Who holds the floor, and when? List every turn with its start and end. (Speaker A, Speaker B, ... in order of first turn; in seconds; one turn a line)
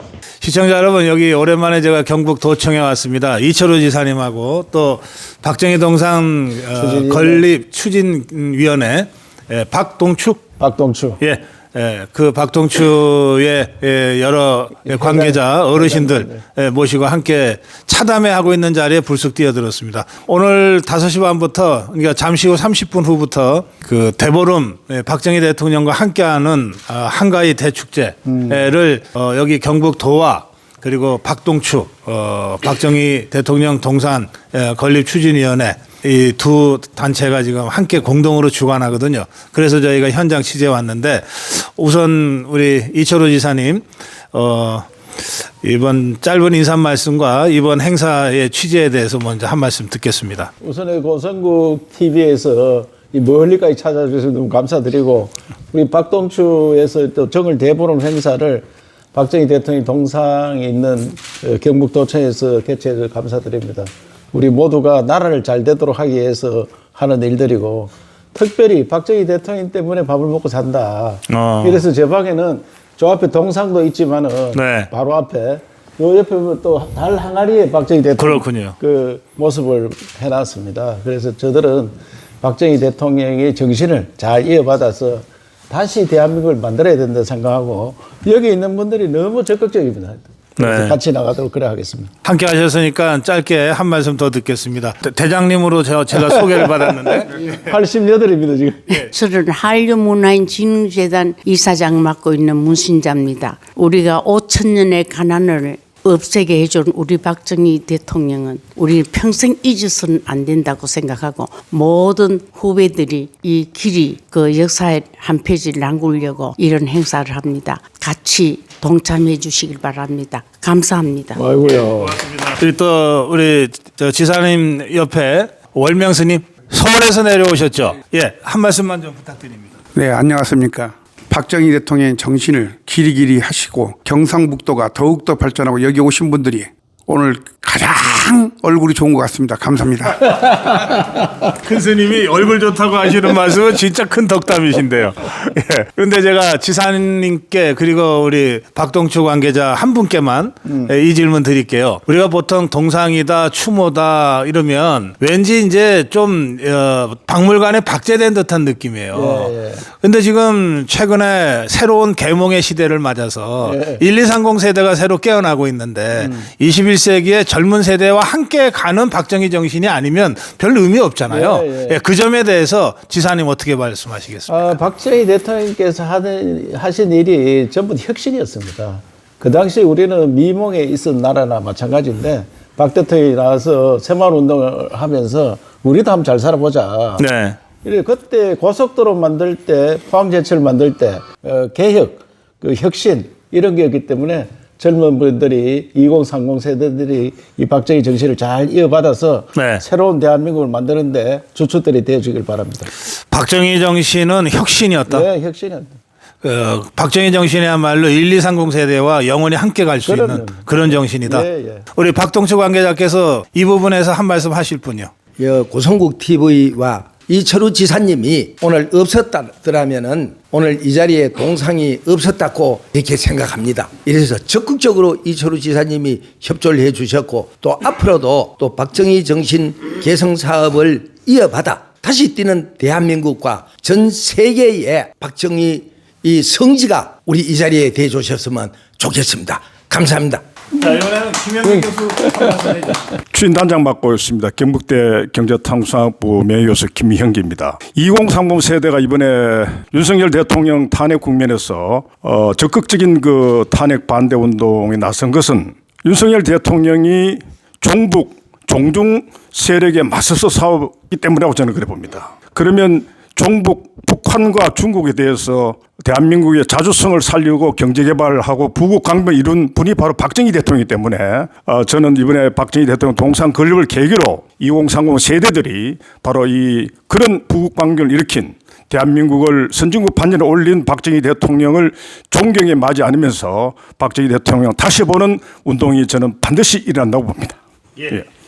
Speaker A: 0.4-10.5
Speaker B: 6.8-7.4
Speaker B: 10.6-11.2
Speaker A: 11.2-50.5
Speaker B: 14.9-16.4
Speaker B: 28.3-28.6
Speaker B: 50.6-92.1
Speaker A: 71.3-71.8
Speaker A: 74.5-74.9
Speaker A: 78.2-78.8
Speaker A: 90.6-91.0
Speaker A: 92.2-97.6
Speaker B: 97.2-98.9
Speaker C: 98.9-121.4
Speaker B: 121.4-122.2
Speaker A: 122.0-129.8
Speaker D: 129.9-140.6
Speaker A: 140.5-174.8
Speaker B: 150.7-150.9
Speaker B: 159.1-159.9
Speaker B: 163.6-164.0
Speaker B: 166.2-166.5
Speaker B: 171.3-172.0
Speaker B: 174.5-187.2
Speaker A: 187.2-187.6
Speaker B: 187.8-202.9
Speaker A: 199.6-199.8
Speaker A: 203.3-205.3
Speaker B: 205.1-205.9
Speaker A: 206.4-215.1
Speaker B: 210.1-211.9
Speaker E: 215.4-240.4
Speaker A: 240.8-243.1
Speaker F: 243.3-288.3